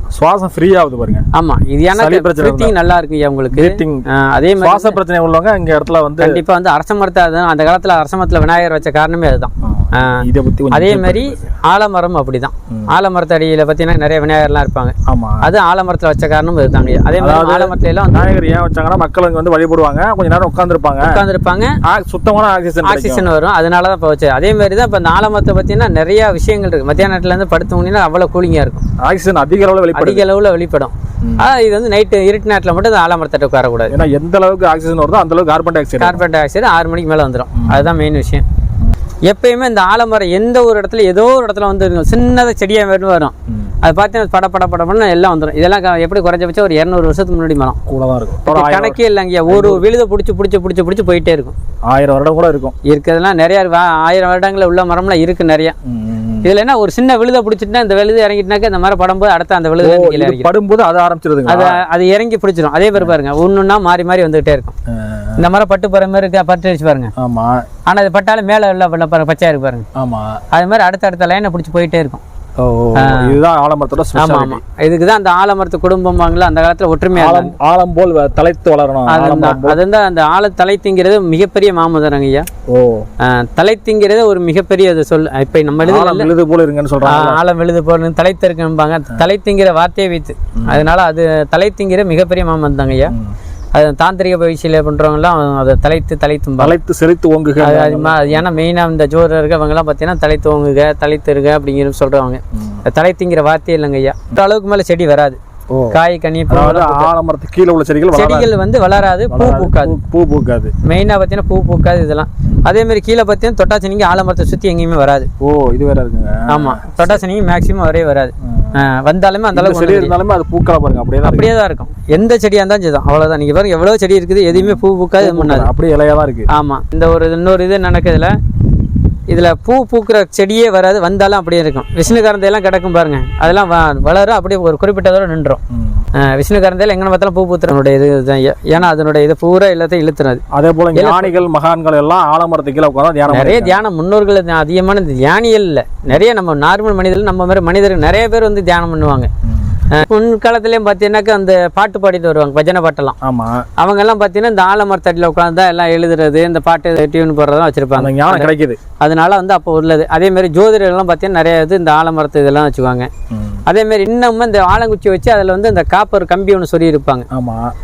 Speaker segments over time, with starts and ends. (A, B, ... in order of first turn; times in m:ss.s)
0:00.1-0:01.3 A
0:01.3-0:05.0 B
0:01.9-0:02.8 A
0:03.5-0:04.0 A
0:04.6-0:06.4 A
0:06.2-0:18.2 B
0:09.6-0:11.5 A
0:15.0-0:15.5 A
0:17.2-0:21.2 A
0:21.0-0:21.8 B
0:21.8-0:23.3 A
0:22.8-0:28.8 B
0:29.0-0:30.2 A
0:29.9-0:33.9 B
0:31.2-0:31.5 A
0:33.9-0:36.2 A
0:36.0-0:38.4 B
0:37.5-0:37.9 A
0:39.2-0:47.8 B
0:43.5-0:43.7 A
0:47.9-0:49.8 A
0:48.5-0:51.5 B
0:51.8-0:52.8 A
0:52.8-0:55.7 B
0:55.8-0:56.5 A
0:56.4-1:00.5 B
0:59.8-1:01.8 A
1:01.5-1:04.7 B
1:04.9-1:05.4 A
1:05.4-1:07.1 B
1:07.2-1:07.6 A
1:07.8-1:09.8 B
1:10.0-1:10.4 A
1:10.5-1:12.2 B
1:12.6-1:14.6 A
1:13.0-1:13.4 B
1:14.1-1:17.5 B
1:17.1-1:19.8 A
1:19.1-1:22.5 B
1:22.7-1:23.1 A
1:23.2-1:26.3 B
1:25.8-1:27.4 A
1:27.0-1:33.1 B
1:30.6-1:30.8 A
1:33.1-1:33.4 A
1:33.7-1:36.7 B
1:36.6-1:38.4 A
1:37.6-1:45.4 B
1:42.5-1:42.8 A
1:45.7-1:48.5 A
1:45.9-1:47.1 B
1:48.1-1:49.9 B
1:49.3-1:50.7 A
1:50.8-1:55.3 B
1:55.4-1:57.2 A
1:56.5-2:00.1 B
1:58.4-1:58.8 A
1:59.5-2:01.5 A
2:01.2-2:05.7 B
2:04.5-2:06.5 A
2:06.5-2:08.4 B
2:09.3-2:15.6 B
2:15.7-2:16.1 A
2:16.2-2:21.4 B
2:20.5-2:23.8 A
2:23.3-2:29.3 B
2:29.4-2:29.8 A
2:29.9-2:33.2 B
2:33.2-2:33.6 A
2:33.8-2:38.5 B
2:38.0-2:38.8 A
2:39.0-2:43.1 B
2:43.3-2:43.6 A
2:43.7-2:47.3 B
2:47.3-2:47.7 A